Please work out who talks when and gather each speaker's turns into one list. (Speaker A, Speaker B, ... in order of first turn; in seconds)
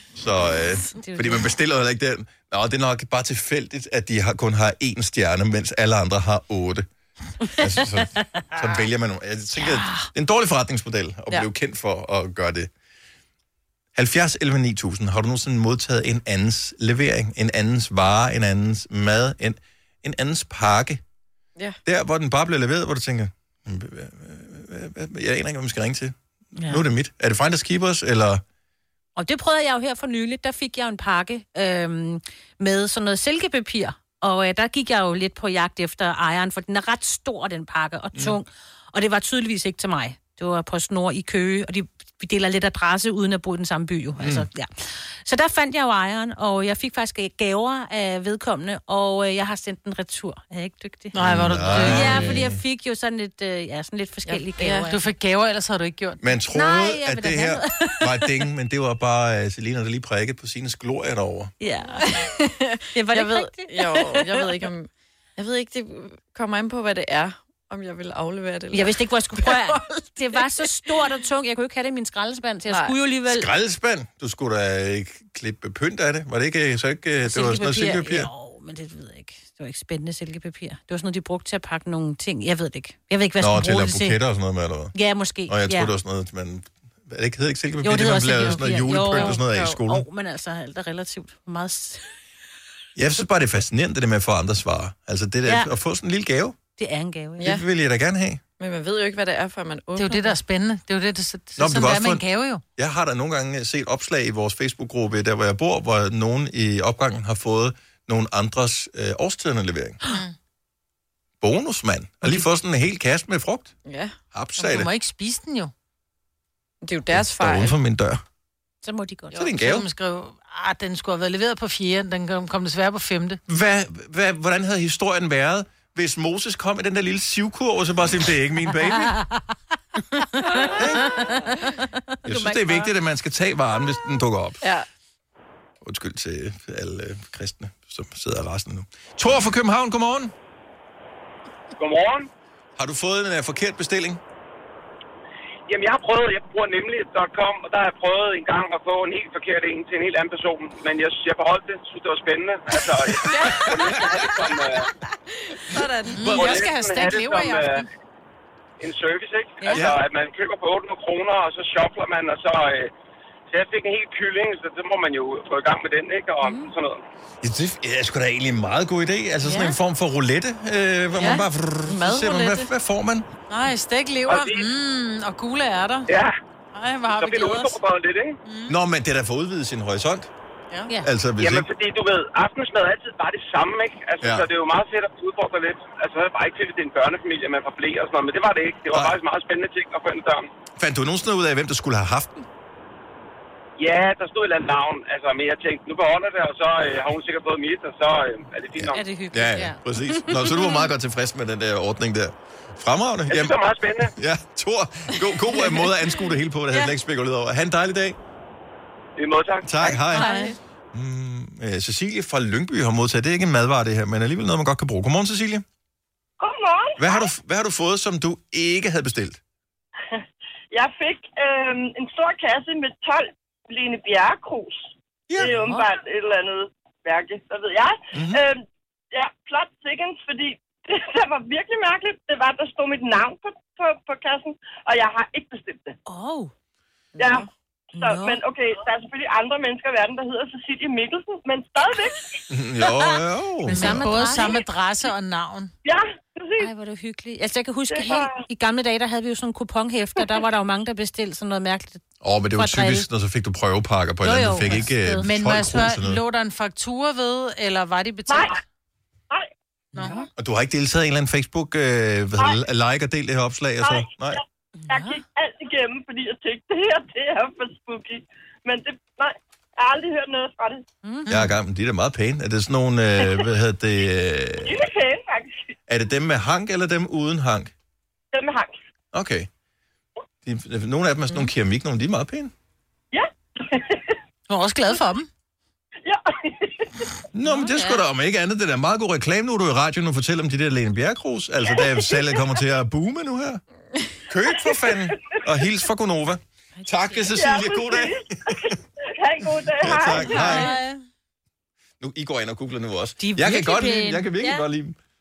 Speaker A: 0.1-6.8, 7.6-12.7, 13.9-21.0, 21.8-28.4, 44.2-44.5, 51.2-52.6, 56.2-61.5, 73.2-78.3, 83.4-84.9, 85.5-90.0, 93.0-96.6, 97.4-98.4, 101.6-102.2, 102.8-110.0, 111.4-113.7, 114.3-114.9, 117.1-118.2, 119.3-119.8, 123.5-129.2, 130.7-131.1, 132.2-134.6, 135.8-140.3, 142.8-144.2, 155.8-156.6, 159.7-160.0, 167.4-173.3, 178.7-180.3, 181.0-181.7, 184.2-184.5, 188.9-189.2, 190.8-192.4, 198.8-208.2, 209.6-210.3, 210.9-215.6, 217.0-219.4, 225.3-225.7, 228.1-228.4, 242.5-244.1, 252.2-256.2, 260.3-264.4, 271.3-274.8, 275.9-277.7, 279.1-279.5, 280.4-282.5, 287.3-293.6, 294.3-298.5, 299.8-300.7, 302.0-305.0
Speaker B: 0.9-1.5, 9.6-10.1, 26.6-26.9, 29.1-55.0, 56.5-58.3, 61.6-62.3, 62.9-64.7, 68.7-73.5, 77.2-84.2, 84.9-85.9, 87.8-92.0, 95.4-95.7, 96.8-97.5, 118.8-119.4, 130.3-132.9, 159.6-159.9, 166.4-166.7, 169.4-169.8, 198.9-200.9, 210.1-210.6, 236.1-236.5, 237.9-238.4, 243.7-244.6, 246.6-253.1, 254.2-255.2, 260.0-260.3, 264.8-265.2, 271.0-271.4, 287.4-288.0, 296.8-297.3, 300.2-300.9, 303.2-304.7
Speaker C: 51.1-52.4, 54.8-56.2, 100.0-102.6, 110.1-110.3, 114.6-115.7, 119.6-123.4, 156.1-157.9, 173.5-176.1, 176.7-177.8, 178.4-178.7, 243.7-245.7, 255.1-258.6, 259.9-260.2, 284.5-285.3, 300.3-300.8
Speaker D: 54.2-54.9, 62.0-71.0, 72.7-73.0, 89.2-89.8, 97.4-97.6, 98.6-100.3, 113.8-114.1, 116.8-117.7, 134.6-134.9, 153.2-154.1, 155.5-156.5, 171.2-172.7, 205.5-205.8, 209.9-210.5, 237.2-237.5
Speaker E: 141.8-142.3, 145.7-154.9, 156.3-157.8, 158.8-162.9, 163.5-167.0, 174.3-174.6, 176.1-176.3, 177.1-178.4, 181.4-190.5, 193.8-199.0, 203.3-204.1, 209.2-209.9
Speaker F: 216.4-217.3, 220.7-236.0, 237.2-242.4, 245.8-246.7, 247.9-248.4, 258.3-258.6, 263.8-270.8, 274.6-275.7, 278.3-278.8, 283.1-284.1, 286.0-287.0, 291.7-292.4, 294.5-295.4, 297.3-300.6